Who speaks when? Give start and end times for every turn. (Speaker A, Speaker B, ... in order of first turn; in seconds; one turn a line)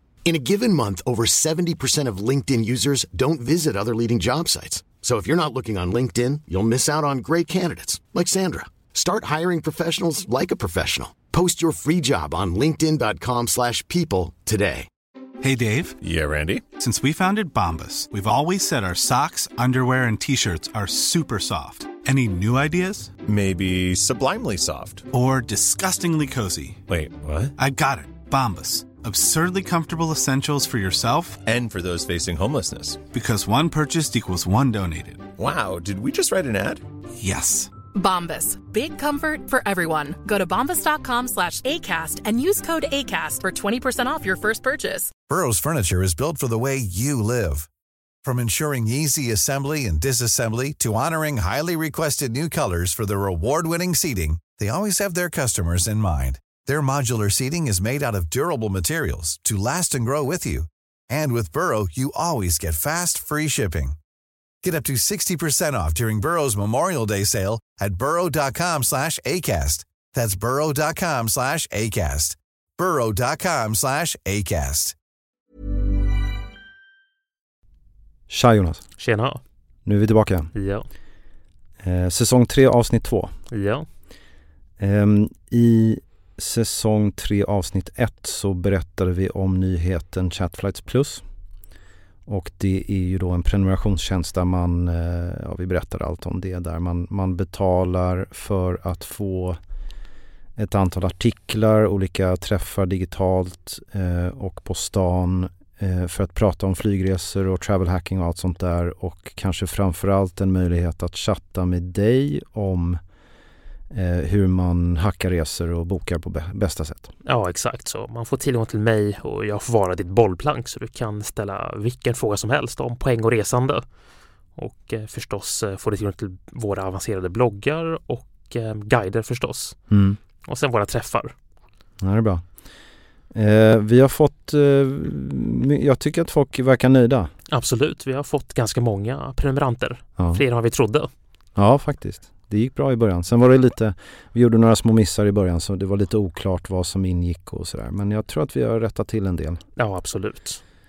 Speaker A: 0.2-14.9
Speaker B: 15.4-16.0
Speaker C: 16.0-16.7
Speaker B: 16.7-23.1
Speaker C: 23.2-25.1
Speaker B: 25.1-26.8
Speaker C: 26.9-27.5
Speaker B: 27.6-31.4
Speaker C: 31.4-33.1
Speaker B: 33.1-35.3
Speaker C: 35.4-36.8
Speaker B: 37.2-37.7
Speaker D: 37.9-45.1
Speaker E: 45.3-47.7
Speaker E: 48.2-64.0
Speaker E: 64.6-74.9
Speaker F: 78.3-78.8
Speaker G: 79.0-79.4
Speaker F: 79.8-80.5
Speaker G: 80.5-80.9
Speaker F: 81.8-83.3
Speaker G: 83.5-83.8
Speaker F: 84.8-91.2
Speaker F: 92.3-99.6
Speaker F: 100.6-113.0
Speaker F: 113.9-117.1
Speaker G: 117.2-123.8
Speaker G: 124.6-129.8
Speaker F: 129.9-130.2
Speaker G: 130.4-131.3
Speaker F: 132.0-132.4
Speaker F: 133.3-137.3
Speaker G: 137.5-141.1
Speaker F: 140.2-140.4
Speaker F: 141.6-149.6
Speaker G: 149.8-150.6